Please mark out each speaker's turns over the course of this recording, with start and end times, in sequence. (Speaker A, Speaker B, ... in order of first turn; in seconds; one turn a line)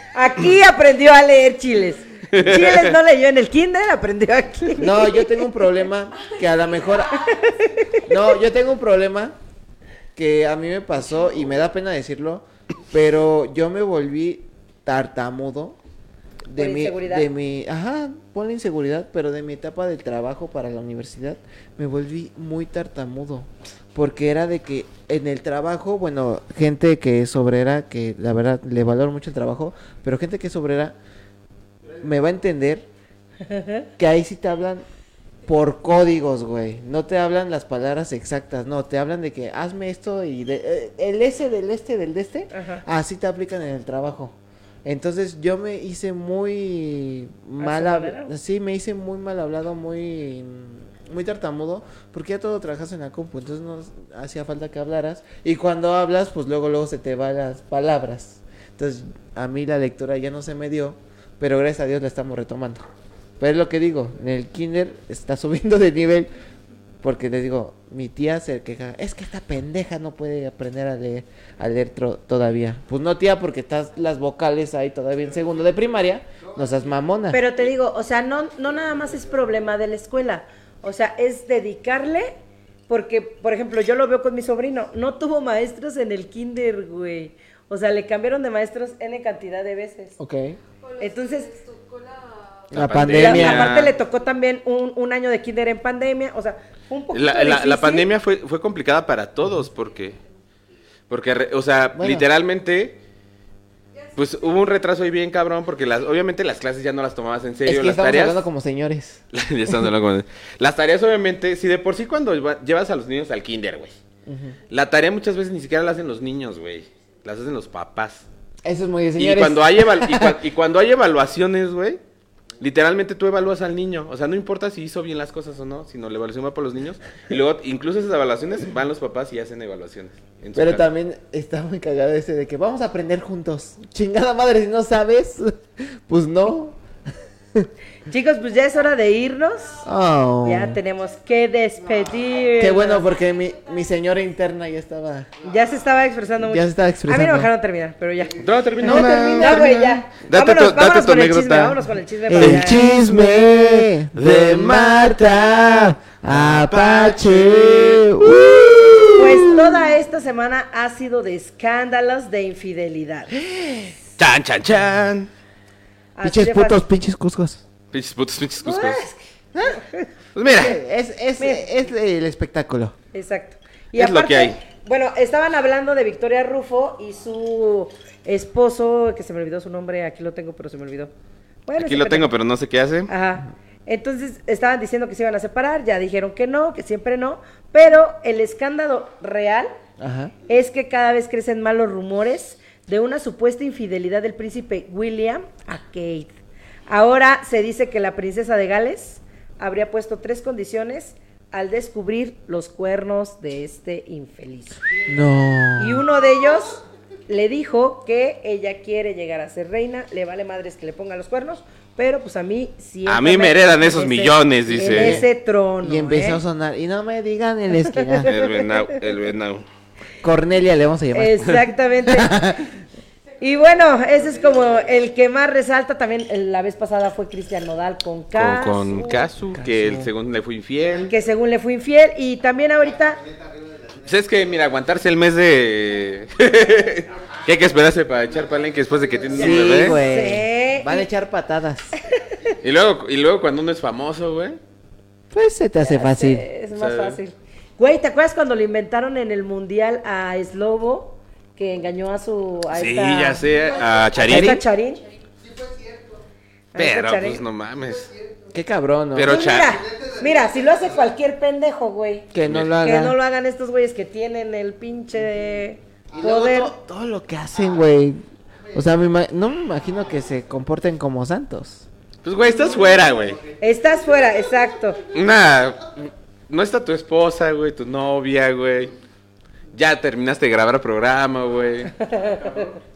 Speaker A: 0.1-5.4
Speaker B: 2.3-3.0
Speaker C: 4.8-7.3
Speaker A: 7.2-8.0
Speaker C: 8.1-9.4
Speaker C: 10.2-15.8
Speaker C: 16.5-31.0
Speaker A: 16.6-17.3
Speaker C: 32.0-32.9
Speaker A: 33.5-33.9
Speaker C: 34.0-34.8
Speaker C: 35.5-62.8
Speaker A: 42.5-42.8
Speaker A: 47.6-48.3
Speaker C: 63.4-66.3
Speaker C: 67.0-77.4
Speaker A: 77.3-82.3
Speaker A: 82.9-90.2
Speaker C: 90.2-90.6
Speaker A: 90.9-91.8
Speaker C: 92.7-93.9
Speaker B: 92.7-93.9
Speaker A: 93.1-98.1
Speaker B: 97.1-100.2
Speaker B: 101.1-103.0
Speaker C: 102.0-102.3
Speaker B: 104.2-108.5
Speaker C: 107.7-109.8
Speaker B: 109.3-114.0
Speaker C: 114.3-114.6
Speaker B: 114.7-118.3
Speaker C: 118.7-120.4
Speaker B: 119.2-122.0
Speaker B: 122.6-130.9
Speaker C: 130.6-136.8
Speaker A: 138.1-139.8
Speaker C: 139.8-140.8
Speaker A: 140.4-143.1
Speaker C: 142.6-145.3
Speaker A: 145.4-152.8
Speaker C: 146.4-147.5
Speaker B: 148.4-149.7
Speaker C: 148.8-150.1
Speaker B: 150.3-151.8
Speaker C: 152.3-159.8
Speaker B: 152.3-159.1
Speaker A: 159.2-163.4
Speaker C: 163.3-163.9
Speaker B: 164.2-165.3
Speaker A: 166.2-166.8
Speaker C: 166.2-167.6
Speaker B: 167.9-169.0
Speaker A: 168.6-170.1
Speaker C: 169.6-169.8
Speaker B: 170.3-170.8
Speaker C: 170.4-172.9
Speaker A: 171.4-171.7
Speaker A: 173.1-181.1
Speaker B: 173.9-174.6
Speaker A: 181.7-182.3
Speaker B: 181.8-183.1
Speaker A: 183.1-189.7
Speaker C: 190.0-190.3
Speaker A: 190.5-196.3
Speaker A: 196.9-204.8
Speaker C: 205.1-206.0
Speaker A: 205.8-216.4
Speaker B: 213.1-215.2
Speaker C: 214.8-215.3
Speaker C: 215.8-218.3
Speaker A: 217.9-218.8
Speaker B: 218.2-219.6
Speaker C: 220.2-222.7
Speaker A: 221.1-222.3
Speaker A: 223.4-229.3
Speaker B: 228.4-231.1
Speaker C: 229.6-230.1
Speaker A: 231.1-233.2
Speaker B: 234.1-240.0
Speaker C: 239.3-241.9
Speaker A: 239.4-241.1
Speaker B: 242.6-244.6
Speaker C: 245.3-246.4
Speaker A: 245.8-253.5
Speaker B: 246.7-247.2
Speaker B: 252.7-254.6
Speaker A: 254.1-255.0
Speaker C: 254.2-254.6
Speaker A: 256.7-257.4
Speaker B: 256.8-258.1
Speaker C: 258.5-259.4
Speaker B: 259.1-259.8
Speaker A: 259.2-266.7
Speaker C: 262.3-263.2
Speaker B: 262.4-262.7
Speaker C: 266.2-268.2
Speaker C: 268.7-271.9
Speaker B: 272.2-273.4
Speaker A: 273.6-275.0
Speaker B: 275.1-278.9
Speaker B: 279.7-281.9
Speaker A: 282.0-282.8